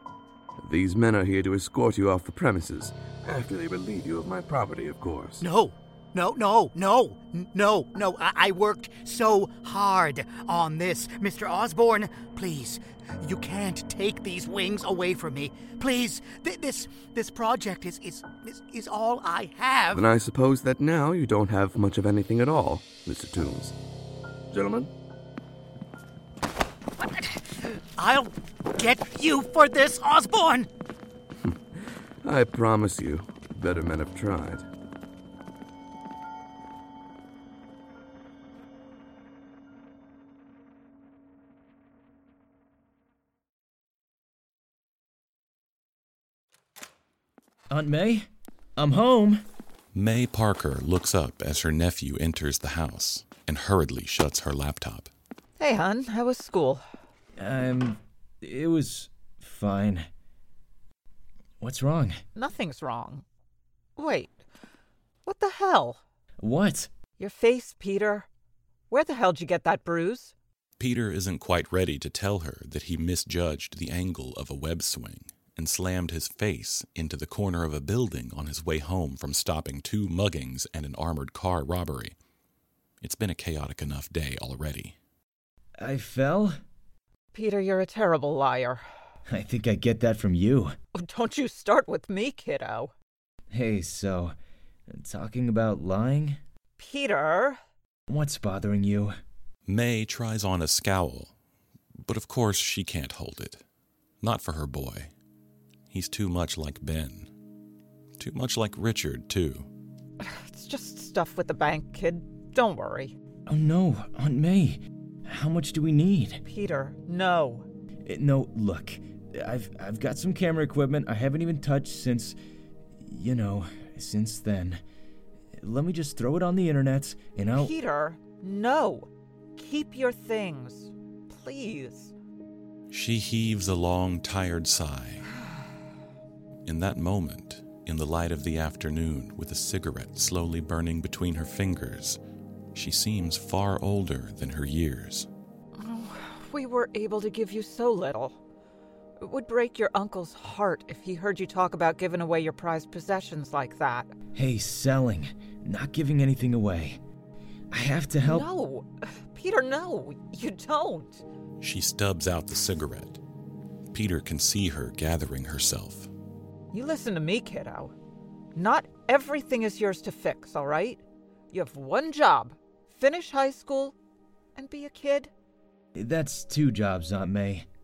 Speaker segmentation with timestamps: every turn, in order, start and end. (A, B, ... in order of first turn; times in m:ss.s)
0:00.6-0:05.4 A
0:05.4-0:20.1 B
0:19.9-0:23.7 A
0:24.5-0:24.9 A
0:27.0-0:30.7 B
0:32.2-0:34.7 A
0:47.7-0:49.4 C
0:49.9-0:55.1 D
0:55.6-0:56.8 E
0:57.4-1:00.1 C
1:01.6-1:02.2 C
1:02.4-1:03.2 E
1:04.0-1:04.4 E
1:05.2-1:06.0 E
1:06.4-1:06.9 C
1:07.2-1:08.3 E
1:08.9-1:10.4 E
1:10.8-1:22.2 D
1:23.0-1:25.0 D
1:25.8-1:26.6 C
1:27.3-1:28.8 E
1:29.3-1:30.8 C
1:31.0-1:32.9 E
1:33.5-1:34.4 C
1:34.9-1:36.4 C
1:36.8-1:37.6 E
1:38.1-1:39.2 C
1:39.7-1:41.3 D
1:42.0-1:43.6 D
1:44.2-1:45.1 D
1:45.9-1:47.3 D
1:48.2-1:49.7 D
1:50.2-1:53.2 E
1:53.5-1:56.4 C
1:56.4-1:57.7 E
1:58.1-2:02.4 C
2:03.1-2:04.8 C
2:05.6-2:07.7 C
2:07.6-2:12.1 E
2:12.9-2:15.3 D
2:16.7-2:22.2 D
2:22.7-2:25.3 D
2:25.8-2:28.4 E
2:29.2-2:34.2 E
2:34.4-2:37.0 C
2:37.7-2:38.5 C
2:38.2-2:41.2 E
2:41.6-2:43.2 D
2:43.9-2:46.1 D
2:46.7-2:47.9 E
2:48.6-2:51.0 E
2:51.5-2:54.0 E
2:54.6-2:55.3 E
2:56.0-2:57.7 C